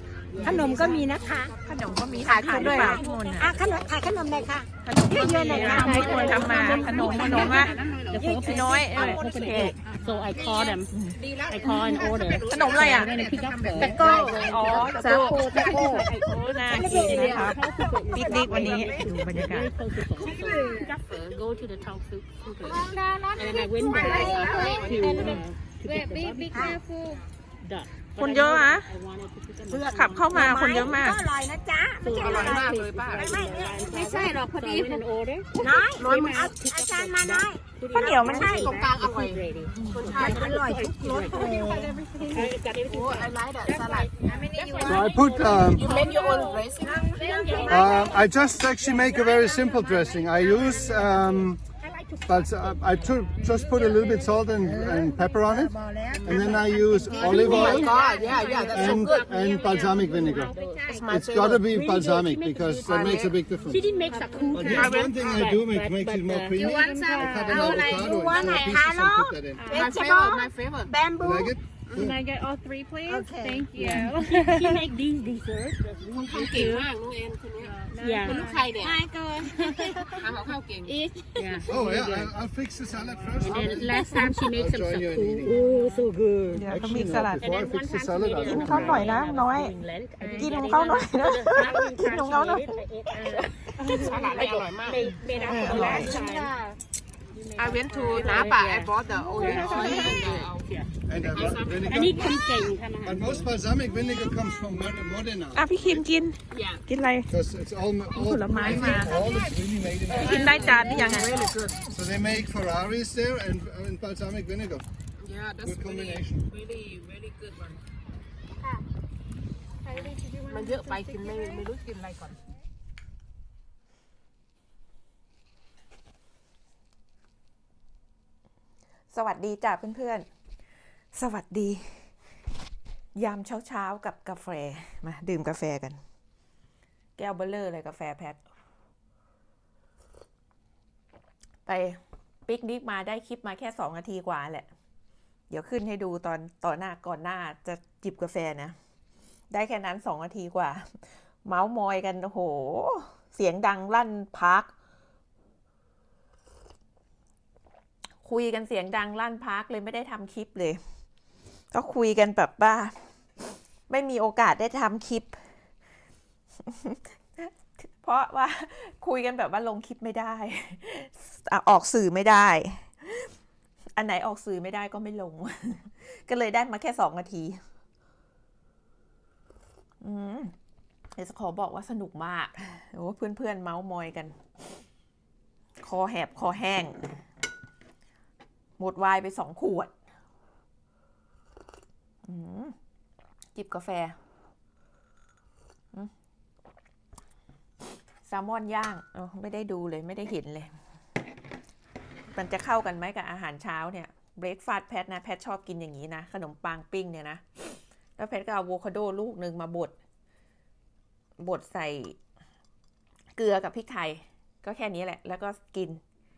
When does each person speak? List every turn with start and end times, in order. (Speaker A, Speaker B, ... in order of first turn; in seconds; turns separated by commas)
Speaker A: 0.3-1.5, Speaker B: 0.4-1.2, Speaker C: 0.4-1.0, Speaker D: 0.4-1.5, Speaker C: 1.6-3.7, Speaker A: 2.2-3.0, Speaker B: 2.2-4.1, Speaker D: 2.2-9.0, Speaker C: 4.8-7.8, Speaker B: 5.1-10.9, Speaker A: 5.3-17.5, Speaker E: 5.8-6.3, Speaker C: 8.4-9.8, Speaker C: 10.9-11.2, Speaker B: 11.4-26.8, Speaker C: 12.5-13.2, Speaker C: 13.8-19.7, Speaker D: 13.8-16.0, Speaker E: 15.4-16.1, Speaker D: 16.7-17.4, Speaker D: 18.2-18.7, Speaker E: 18.2-18.9, Speaker A: 20.2-21.6, Speaker D: 20.3-20.8, Speaker A: 22.6-25.5, Speaker D: 22.6-27.2, Speaker E: 25.1-25.4, Speaker E: 25.9-26.8, Speaker B: 27.6-30.9, Speaker C: 28.2-28.9, Speaker C: 29.7-31.2, Speaker D: 30.2-35.0, Speaker B: 32.0-48.3, Speaker A: 32.1-33.5, Speaker E: 34.2-35.0, Speaker D: 35.5-38.8, Speaker A: 36.0-36.5, Speaker C: 37.9-38.7, Speaker A: 38.3-40.5, Speaker C: 39.7-40.1, Speaker D: 40.1-42.4, Speaker E: 41.0-42.5, Speaker A: 42.8-44.2, Speaker E: 44.2-47.7, Speaker D: 44.3-51.4, Speaker F: 44.8-45.9, Speaker A: 45.6-47.9, Speaker F: 47.7-51.6, Speaker B: 51.8-54.3, Speaker F: 52.2-58.0, Speaker D: 53.8-54.1, Speaker D: 54.9-59.0, Speaker B: 57.1-61.0, Speaker A: 57.1-59.6, Speaker F: 58.7-60.5, Speaker A: 60.5-61.7, Speaker D: 60.6-61.1, Speaker F: 61.1-63.9, Speaker B: 61.6-68.2, Speaker A: 62.9-63.3, Speaker E: 64.0-64.8, Speaker D: 64.2-65.0, Speaker F: 64.5-69.8, Speaker A: 64.6-65.1, Speaker D: 66.5-71.5, Speaker E: 67.0-67.5, Speaker B: 69.6-69.9, Speaker E: 69.6-69.9, Speaker A: 69.7-70.9, Speaker F: 71.2-72.2, Speaker E: 71.9-74.9, Speaker D: 73.0-73.9, Speaker B: 73.8-76.9, Speaker A: 76.1-79.0, Speaker E: 77.8-78.9, Speaker B: 77.9-78.5, Speaker D: 78.7-80.2, Speaker B: 79.6-80.1, Speaker E: 79.6-80.0, Speaker A: 80.1-81.0, Speaker D: 80.9-82.2, Speaker B: 81.4-81.7, Speaker F: 81.7-85.7, Speaker B: 83.3-96.5, Speaker E: 85.5-86.1, Speaker F: 86.5-89.2, Speaker C: 86.5-87.5, Speaker C: 88.4-89.8, Speaker E: 90.2-90.6, Speaker C: 90.3-94.5, Speaker A: 93.9-96.8, Speaker C: 95.0-96.1, Speaker B: 97.3-103.5, Speaker A: 97.6-100.7, Speaker E: 99.4-100.2, Speaker F: 101.1-106.0, Speaker A: 101.2-102.6, Speaker C: 105.5-107.3, Speaker A: 106.5-106.8, Speaker F: 107.3-110.8, Speaker C: 108.1-109.2, Speaker A: 110.1-111.9, Speaker C: 110.1-111.4, Speaker F: 111.9-114.8, Speaker A: 115.2-117.8, Speaker F: 115.6-116.5, Speaker E: 119.8-121.7, Speaker A: 119.9-122.4, Speaker C: 129.1-130.3, Speaker C: 131.1-132.1, Speaker C: 133.2-136.0, Speaker C: 137.2-138.4, Speaker C: 141.7-144.7, Speaker C: 145.5-148.7, Speaker C: 149.5-154.7, Speaker C: 158.2-160.8, Speaker C: 161.7-163.0, Speaker C: 163.9-165.4, Speaker C: 166.6-173.3, Speaker C: 173.9-177.6, Speaker C: 180.0-180.5, Speaker C: 181.1-184.4, Speaker C: 185.8-187.2, Speaker C: 188.8-189.9, Speaker C: 192.2-192.7, Speaker C: 193.5-194.2, Speaker C: 198.2-200.7, Speaker C: 202.3-209.9, Speaker C: 211.4-212.2, Speaker C: 213.4-216.0